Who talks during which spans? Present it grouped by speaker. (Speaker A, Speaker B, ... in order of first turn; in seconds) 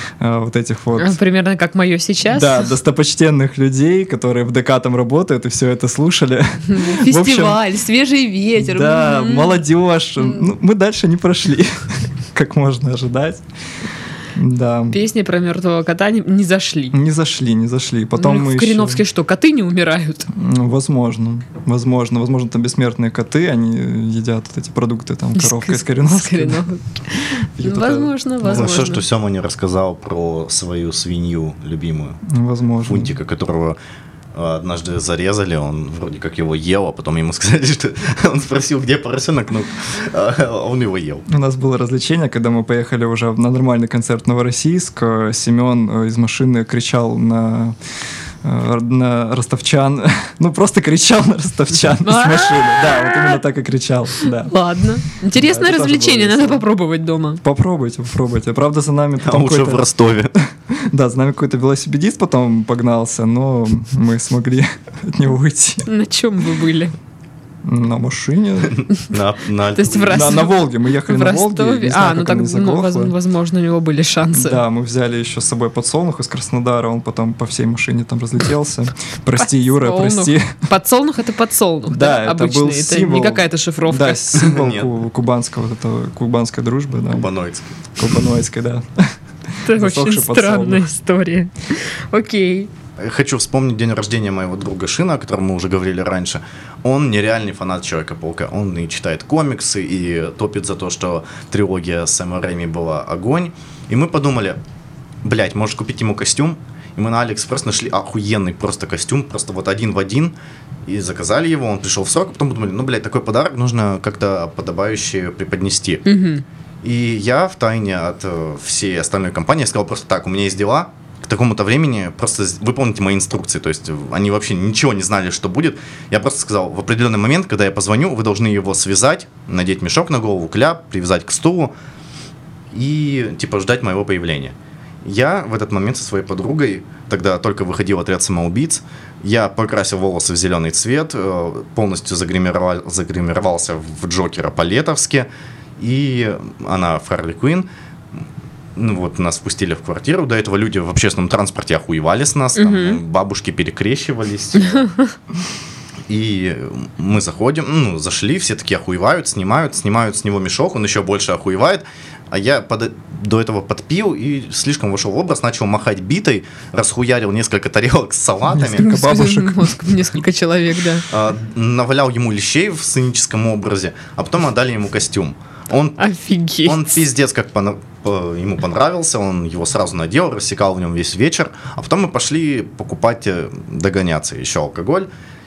Speaker A: 0.2-1.2, 2.3-7.6, 8.6-13.4, 14.3-15.0, 16.9-19.0, 20.3-26.6, 27.6-28.7, 32.2-33.1, 41.3-47.8, 48.4-54.5, 55.3-56.6, 57.4-65.8, 67.6-68.8, 70.1-73.1, 74.3-80.6, 81.9-87.3, 88.0-90.9, 168.5-169.8
Speaker B: 1.0-2.7, 6.7-9.6, 14.9-17.0, 18.1-20.3, 25.3-29.0, 52.0-53.4, 54.4-57.4, 65.8-66.9, 69.7-74.6, 79.4-84.6, 89.7-92.7, 116.0-116.4, 152.6-153.0, 154.6-155.1, 168.8-171.0, 176.0-177.0
Speaker C: 28.4-32.2, 32.8-33.8, 34.3-41.2, 59.2-60.3, 68.7-70.4, 84.3-84.9, 87.1-88.0, 93.0-104.6, 105.2-110.3, 110.8-116.0, 116.8-131.7, 132.7-145.3, 145.8-147.7, 148.8-154.9, 156.1-168.9, 171.1-176.0, 176.6-185.1